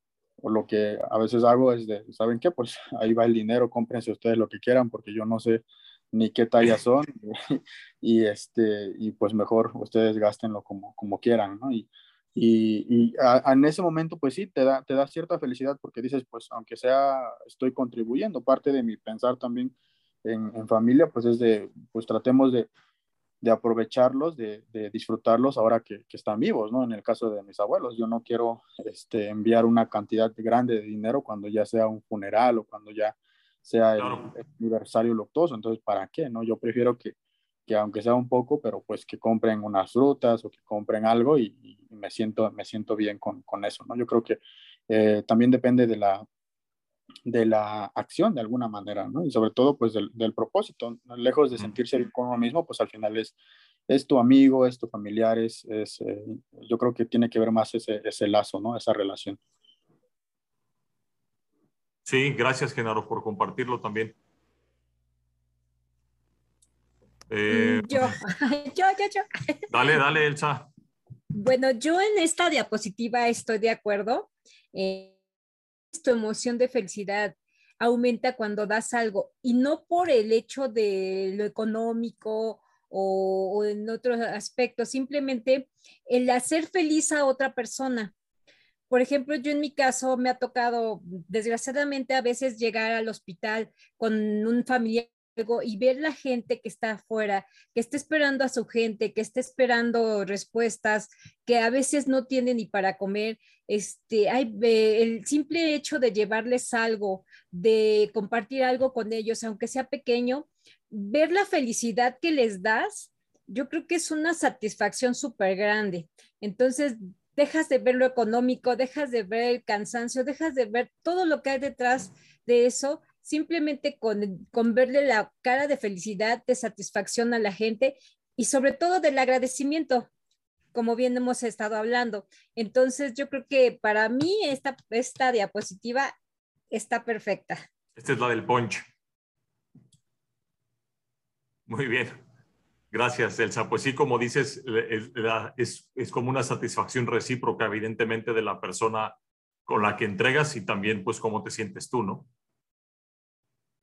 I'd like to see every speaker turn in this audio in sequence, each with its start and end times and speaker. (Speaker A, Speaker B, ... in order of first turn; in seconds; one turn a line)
Speaker A: 0.4-22.7
Speaker A: 23.4-37.1
Speaker B: 34.0-34.3
Speaker A: 37.7-46.3
Speaker A: 47.3-53.4
Speaker A: 53.9-59.4
Speaker B: 62.1-64.1
Speaker B: 67.3-68.2
Speaker C: 67.5-69.6
Speaker B: 69.7-70.7
Speaker C: 71.3-75.1
Speaker C: 75.9-88.1
Speaker C: 88.9-130.1
Speaker C: 130.7-136.1
Speaker C: 136.7-137.6
Speaker B: 137.9-138.9
Speaker B: 141.7-142.2
Speaker B: 142.9-149.1
Speaker B: 149.7-152.3